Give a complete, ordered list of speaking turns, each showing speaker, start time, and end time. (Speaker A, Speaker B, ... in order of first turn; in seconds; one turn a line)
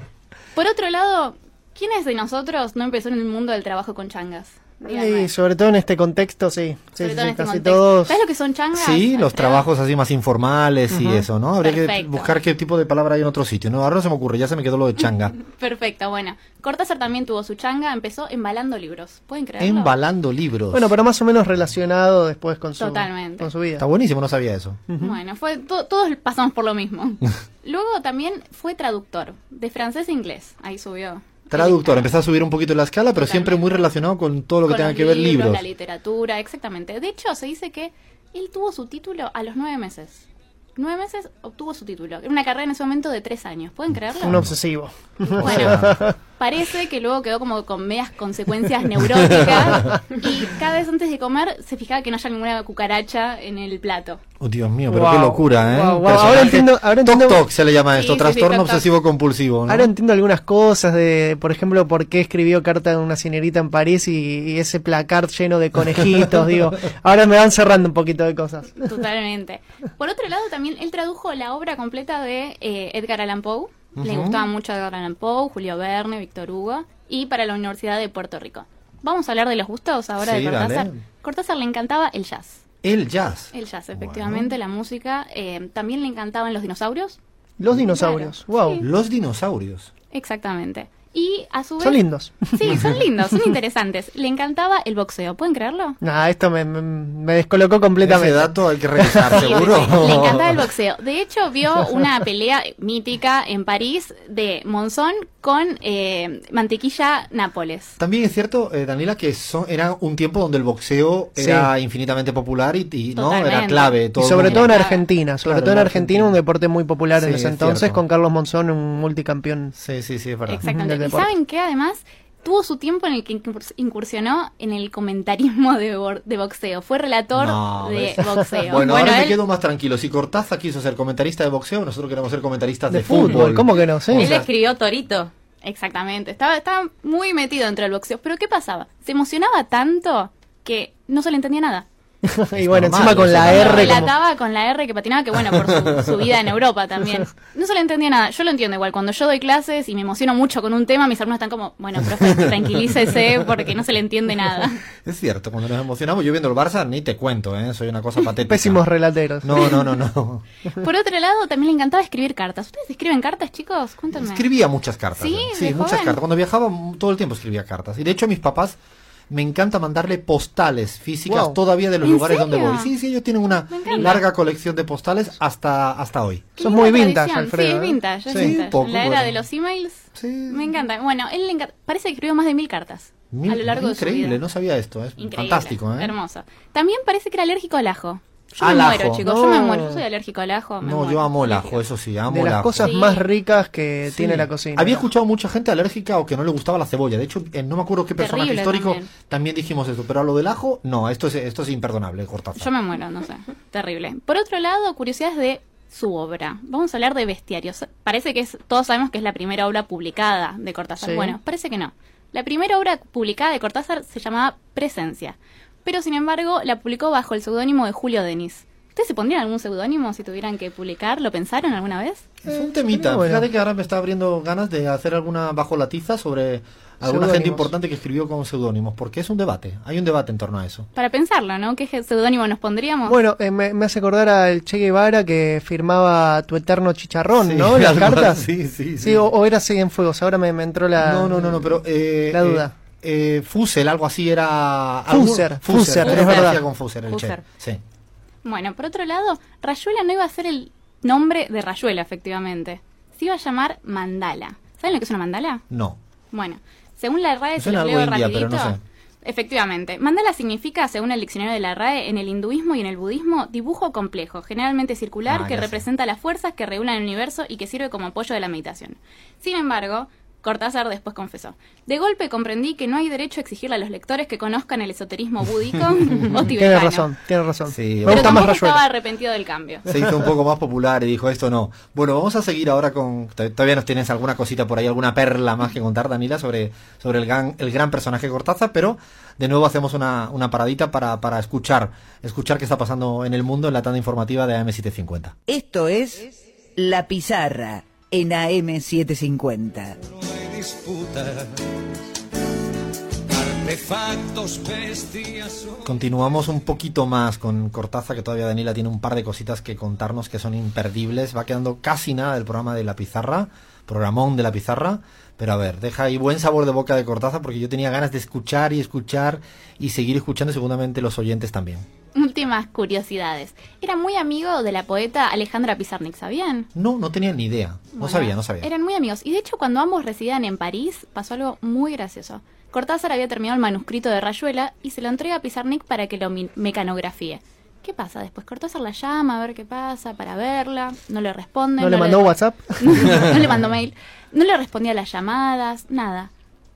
Speaker A: 0.5-5.3
Speaker B: 4.8-8.2
Speaker A: 7.0-9.7
Speaker C: 8.7-15.4
Speaker B: 10.9-11.3
Speaker A: 11.6-12.3
Speaker A: 15.4-19.9
Speaker C: 19.6-20.9
Speaker B: 20.7-23.8
Speaker A: 22.8-23.5
Speaker C: 23.8-24.8
Speaker A: 25.0-32.1
Speaker C: 31.5-35.6
Speaker A: 33.1-33.7
Speaker A: 34.6-40.2
Speaker A: 40.8-44.4
Speaker C: 44.2-44.5
Speaker B: 44.2-46.1
Speaker A: 45.3-45.8
Speaker C: 45.4-46.0
Speaker A: 46.4-54.2
Speaker C: 54.4-59.9
Speaker B: 54.9-57.4
Speaker A: 57.9-58.9
Speaker B: 59.7-68.9
Speaker A: 68.8-82.6
Speaker C: 74.0-74.4
Speaker C: 80.2-81.0
Speaker C: 82.8-84.5
Speaker A: 83.5-87.2
Speaker B: 87.6-88.8
Speaker A: 87.9-88.8
Speaker C: 88.8-89.9
Speaker A: 90.1-92.0
Speaker B: 91.8-92.8
Speaker A: 92.5-96.0
Speaker B: 96.0-100.0
Speaker C: 98.0-100.5
Speaker A: 99.3-108.0
Speaker C: 108.0-114.8
Speaker B: 111.4-111.7
Speaker A: 113.1-115.0
Speaker B: 114.2-119.7
Speaker C: 115.4-116.4
Speaker C: 117.1-118.0
Speaker C: 119.7-120.7
Speaker A: 120.5-129.4
Speaker B: 120.7-121.3
Speaker C: 127.3-134.5
Speaker B: 132.9-134.3
Speaker D: 134.1-135.3
Speaker A: 135.6-141.8
Speaker B: 142.2-144.1
Speaker C: 142.5-144.1
Speaker A: 143.3-154.8
Speaker C: 145.5-146.1
Speaker C: 152.2-152.5
Speaker C: 155.0-158.8
Speaker B: 158.5-159.5
Speaker C: 159.4-160.4
Speaker A: 160.7-164.4
Speaker C: 164.1-168.8
Speaker A: 165.2-166.2
Speaker C: 169.3-176.5
Speaker B: 171.3-171.6
Speaker A: 172.0-172.9
Speaker A: 173.7-174.2
Speaker A: 176.6-184.4
Speaker B: 176.6-178.5
Speaker C: 178.3-179.4
Speaker C: 180.1-180.6
Speaker C: 183.3-186.1
Speaker A: 185.2-191.8
Speaker C: 188.6-189.3
Speaker B: 189.2-190.0
Speaker C: 190.8-192.9
Speaker B: 192.3-195.0
Speaker A: 192.8-193.2
Speaker C: 194.1-202.7
Speaker A: 198.2-199.1
Speaker A: 202.6-222.2
Speaker B: 211.0-211.3
Speaker C: 222.4-230.9
Speaker B: 222.8-223.4
Speaker B: 227.0-227.7
Speaker A: 230.9-233.2
Speaker B: 233.1-238.4
Speaker C: 237.4-239.3
Speaker B: 239.0-241.8
Speaker C: 241.0-247.8
Speaker B: 242.3-242.7
Speaker B: 245.1-246.6
Speaker D: 246.0-246.5
Speaker D: 247.1-247.4
Speaker A: 248.4-255.6
Speaker C: 255.7-256.0
Speaker A: 256.3-277.1
Speaker C: 257.6-258.8
Speaker C: 265.3-265.8
Speaker B: 276.4-278.8
Speaker C: 277.7-278.5
Speaker A: 278.1-279.9
Speaker C: 279.9-295.3
Speaker E: 295.5-300.0
Speaker F: 300.2-301.4
Speaker E: 300.8-301.4
Speaker F: 303.3-305.8
Speaker C: 305.8-321.9
Speaker A: 322.1-326.7
Speaker C: 326.7-328.7
Speaker A: 327.9-346.3
Speaker B: 341.8-343.2